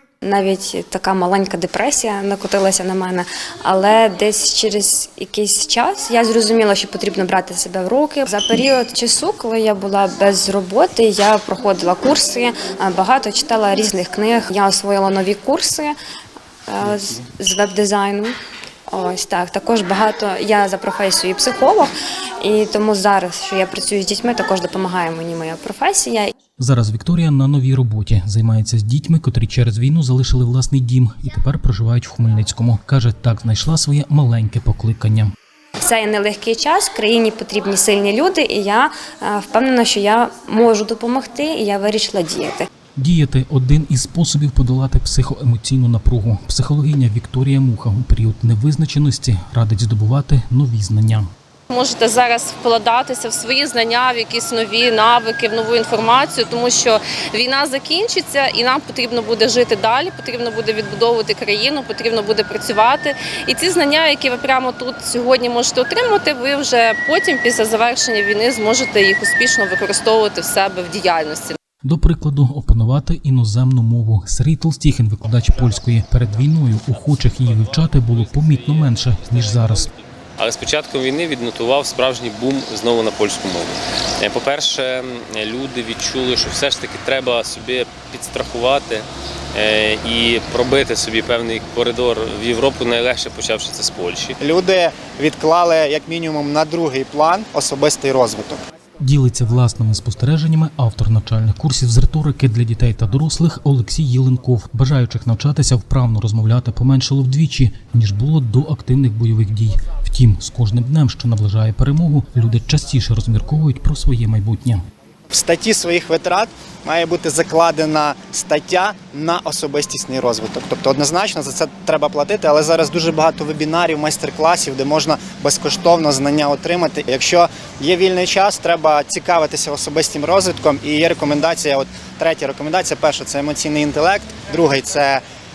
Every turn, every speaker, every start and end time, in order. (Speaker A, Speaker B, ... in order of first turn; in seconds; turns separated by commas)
Speaker A: 0.2-15.9, Speaker A: 16.7-18.3, Speaker A: 18.9-21.9, Speaker A: 22.4-26.3, Speaker B: 26.6-35.3, Speaker A: 35.8-42.7, Speaker B: 43.0-51.3, Speaker C: 51.7-71.6, Speaker B: 71.8-79.9, Speaker D: 76.9-94.3, Speaker E: 94.4-98.6, Speaker B: 99.0-114.8, Speaker E: 115.3-135.2